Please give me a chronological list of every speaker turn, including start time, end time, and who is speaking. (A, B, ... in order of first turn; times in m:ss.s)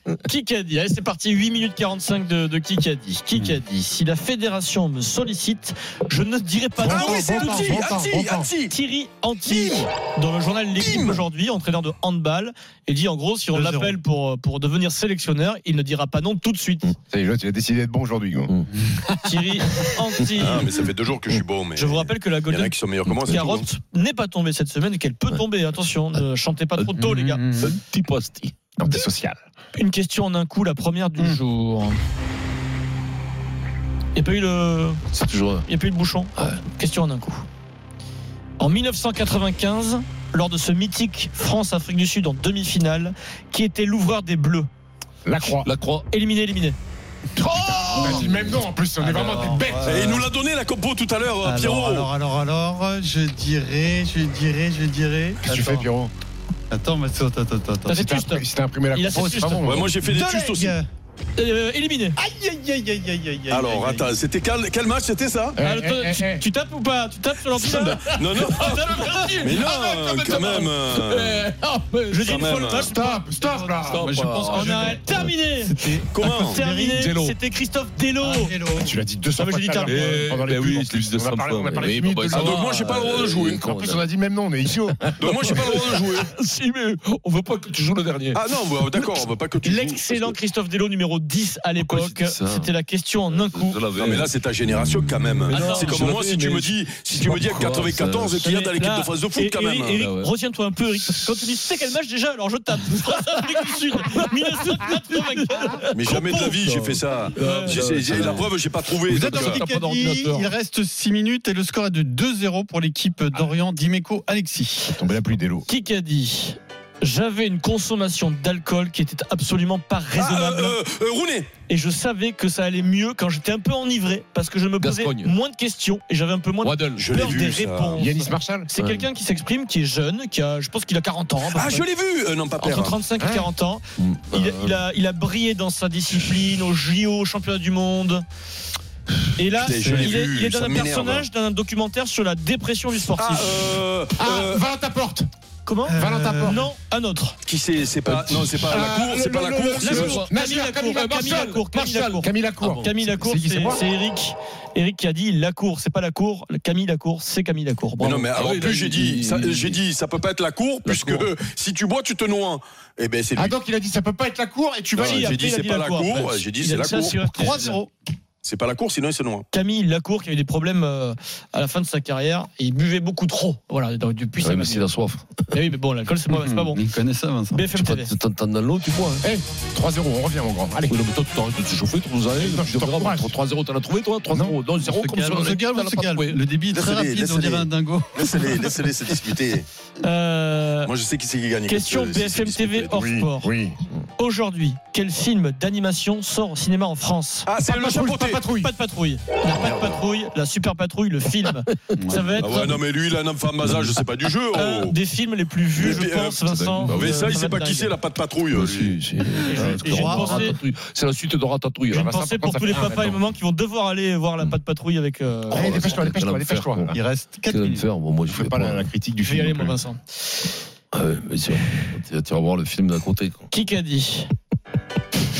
0:00.2-0:07.9 A
0:06.8-0:08.5 B
0:06.8-0:08.7 C
0:08.7-0:16.9 A
0:09.4-0:09.8 C
0:10.8-0:11.2 C
0:13.5-0:14.0 D
0:17.1-0:18.6 B
0:19.2-0:20.7 A
0:20.4-0:23.7 C
0:21.8-0:27.5 A
0:26.9-0:27.8 D
0:27.5-0:28.6 E
0:28.8-0:29.4 B
0:29.7-0:32.0 A
0:34.1-0:35.0 A
0:35.1-0:35.6 E
0:35.7-0:37.4 A
0:38.6-0:44.7 A
0:45.2-0:45.7 B
0:45.6-0:46.0 E
0:46.1-0:46.8 A
0:47.4-0:48.4 E
0:47.5-0:50.0 B
0:47.9-0:50.3 D
0:49.8-0:52.1 C
0:51.4-0:55.9 D
0:55.4-0:56.1 B
0:56.7-0:58.0 D
0:57.9-0:59.8 A
0:57.9-0:59.9 B
0:59.6-1:00.8 C
1:00.0-1:00.8 D
1:01.4-1:02.2 A
1:02.2-1:04.1 D
1:03.5-1:05.6 C
1:05.6-1:06.4 B
1:05.6-1:09.4 A
1:07.6-1:11.5 C
1:07.7-1:12.5 E
1:12.1-1:13.6 A
1:12.3-1:12.9 C
1:12.8-1:14.1 B
1:13.8-1:15.0 D
1:13.8-1:15.3 E
1:14.5-1:15.8 A
1:15.6-1:17.1 D
1:16.1-1:16.6 C
1:16.5-1:18.5 A
1:17.0-1:17.4 E
1:18.2-1:19.0 D
1:18.8-1:22.6 B
1:19.4-1:20.3 A
1:19.8-1:24.0 E
1:22.3-1:23.7 C
1:23.6-1:25.0 B
1:25.0-1:28.4 E
1:25.2-1:26.3 C
1:28.3-1:30.4 C
1:29.6-1:33.8 A
1:31.8-1:32.7 E
1:33.3-1:38.5 E
1:33.9-1:40.0 C
1:35.5-1:36.0 A
1:38.4-1:46.6 A
1:40.0-1:40.3 E
1:45.9-1:49.6 C
1:46.6-1:48.5 E
1:47.3-1:47.8 A
1:49.0-1:54.9 D
1:49.2-1:50.5 E
1:54.9-1:55.6 B
1:55.7-2:00.8 A
2:00.1-2:01.5 C
2:01.7-2:11.8 A
2:04.8-2:05.3 E
2:06.6-2:07.1 E
2:07.0-2:08.1 C
2:08.0-2:08.7 B
2:08.8-2:09.0 E
2:11.4-2:13.0 C
2:12.6-2:18.2 A
2:13.2-2:13.5 B
2:14.0-2:14.8 E
2:19.4-2:23.6 A
2:19.5-2:21.3 C
2:19.6-2:20.1 D
2:23.1-2:24.6 C
2:24.2-2:25.3 B
2:25.6-2:27.4 A
2:25.8-2:26.7 D
2:25.9-2:26.7 B
2:27.4-2:30.2 C
2:28.1-2:31.1 B
2:29.8-2:38.3 A
2:30.9-2:32.9 E
2:32.2-2:33.8 B
2:38.0-2:43.6 C
2:38.3-2:39.8 E
2:43.3-2:45.4 B
2:45.0-2:47.5 C
2:45.0-2:47.8 A
2:47.2-2:47.9 D
2:48.4-2:49.4 C
2:49.5-2:54.9 A
2:54.4-2:55.6 E
2:55.5-2:56.8 A
2:56.3-2:57.6 D
2:57.5-2:58.1 A
2:57.7-2:59.2 E
2:59.2-3:01.0 B
3:00.9-3:06.4 E
3:02.3-3:03.3 B
3:04.3-3:04.6 B
3:04.8-3:08.7 D
3:06.7-3:09.6 C
3:10.0-3:10.9 A
3:10.8-3:13.0 C
3:11.7-3:13.5 A
3:12.9-3:13.8 B
3:14.2-3:17.5 A
3:17.4-3:18.4 C
3:17.6-3:18.7 B
3:18.4-3:22.8 A
3:22.0-3:22.4 D
3:22.4-3:24.9 C
3:24.5-3:27.9 A
3:25.8-3:29.0 C
3:26.5-3:27.3 E
3:28.5-3:32.0 E
3:29.5-3:30.6 A
3:29.5-3:30.5 D
3:31.9-3:33.2 B
3:31.9-3:35.9 A
3:35.5-3:37.0 B
3:35.5-3:36.9 E
3:36.9-3:37.8 D
3:37.4-3:38.9 E
3:38.2-3:39.8 B
3:39.2-3:40.0 A
3:40.9-3:43.4 E
3:43.5-3:44.3 A